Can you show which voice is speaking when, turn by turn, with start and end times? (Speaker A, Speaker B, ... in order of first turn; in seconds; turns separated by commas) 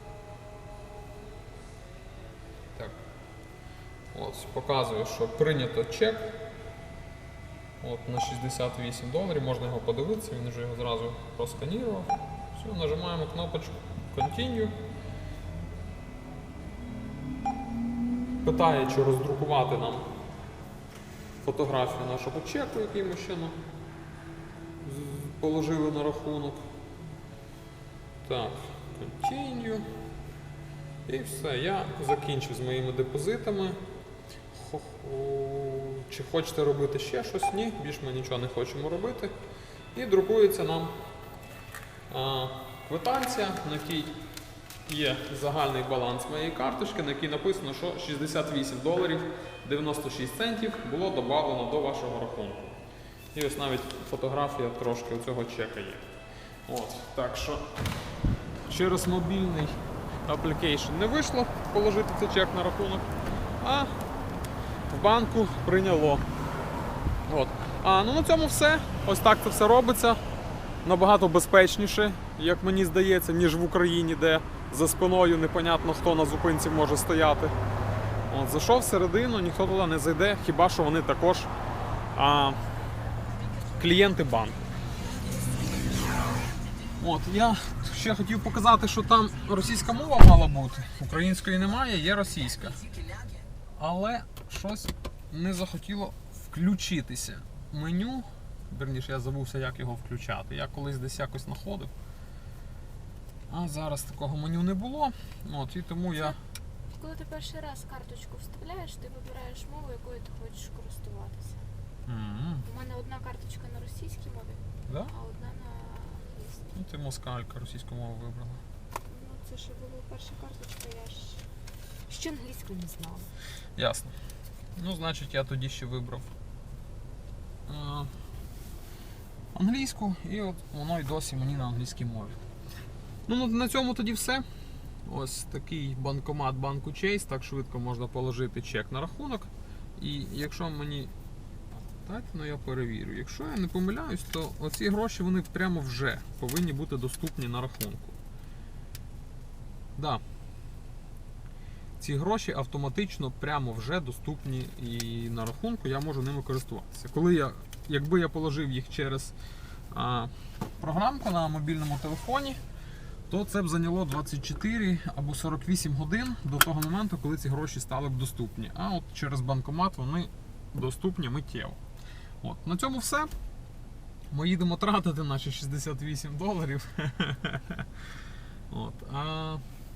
Speaker A: 4.1-6.4, Speaker A: 7.8-14.7, Speaker A: 18.4-20.1, Speaker A: 21.4-23.6, Speaker A: 24.8-26.6, Speaker A: 28.2-29.9, Speaker A: 31.1-33.8, Speaker A: 34.5-39.3, Speaker A: 39.9-41.0, Speaker A: 42.1-44.2, Speaker A: 44.9-52.8, Speaker A: 53.3-56.1, Speaker A: 56.7-57.6, Speaker A: 58.7-63.1, Speaker A: 63.6-63.9, Speaker A: 64.9-66.2, Speaker A: 67.3-70.2, Speaker A: 70.8-77.5, Speaker A: 78.3-81.5, Speaker A: 82.1-82.6, Speaker A: 83.8-84.6, Speaker A: 87.0-92.8, Speaker A: 93.8-101.9, Speaker A: 103.5-106.4, Speaker B: 106.9-111.7, Speaker A: 112.1-112.7, Speaker B: 112.7-116.7, Speaker A: 114.9-115.1, Speaker A: 116.7-118.6, Speaker B: 119.0-121.5, Speaker B: 122.1-123.3, Speaker A: 123.8-124.1, Speaker A: 124.8-126.3, Speaker A: 127.7-128.1, Speaker A: 129.5-132.4, Speaker A: 133.3-134.4, Speaker A: 135.1-141.1, Speaker A: 141.9-148.2, Speaker A: 150.0-150.2, Speaker A: 152.0-159.3, Speaker A: 159.9-162.6, Speaker A: 163.3-171.8, Speaker A: 172.4-173.3, Speaker A: 174.3-177.9, Speaker A: 178.7-179.6